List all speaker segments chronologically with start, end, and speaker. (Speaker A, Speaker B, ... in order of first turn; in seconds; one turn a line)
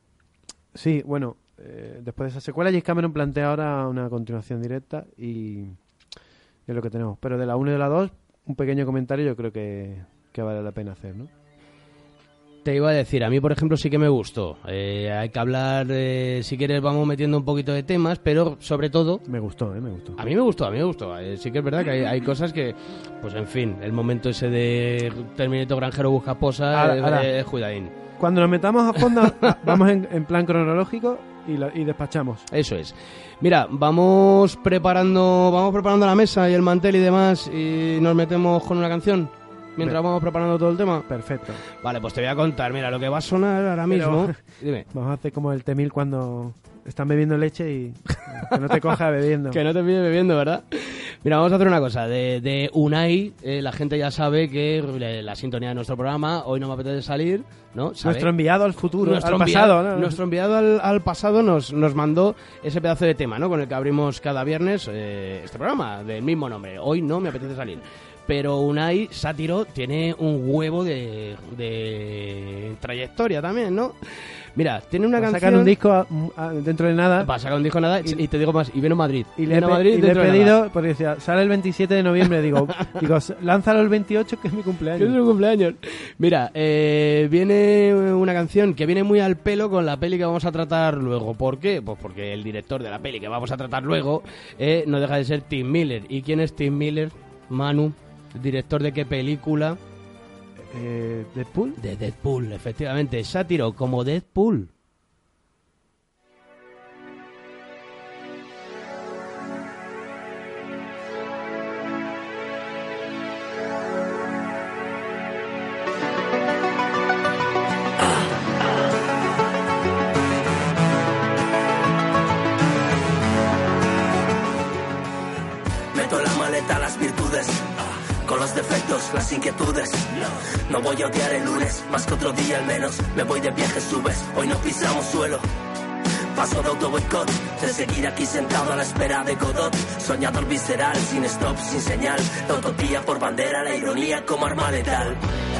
Speaker A: 0.7-5.8
Speaker A: 6.7-11.3
Speaker B: 12.7-19.2
Speaker A: 19.3-20.2
Speaker B: 20.2-27.9
Speaker A: 26.7-27.3
Speaker A: 28.2-32.5
Speaker B: 32.5-41.1
Speaker A: 41.1-41.6
Speaker B: 41.7-44.9
Speaker A: 43.9-49.6
Speaker B: 48.3-48.6
Speaker B: 49.5-58.3
Speaker A: 58.0-60.2
Speaker B: 59.0-74.0
Speaker B: 74.6-75.7
Speaker A: 75.2-77.3
Speaker B: 77.2-80.6
Speaker A: 79.4-85.2
Speaker B: 85.0-99.8
Speaker A: 100.6-101.8
Speaker B: 101.8-104.7
Speaker C: 125.9-135.5
Speaker C: 136.3-145.2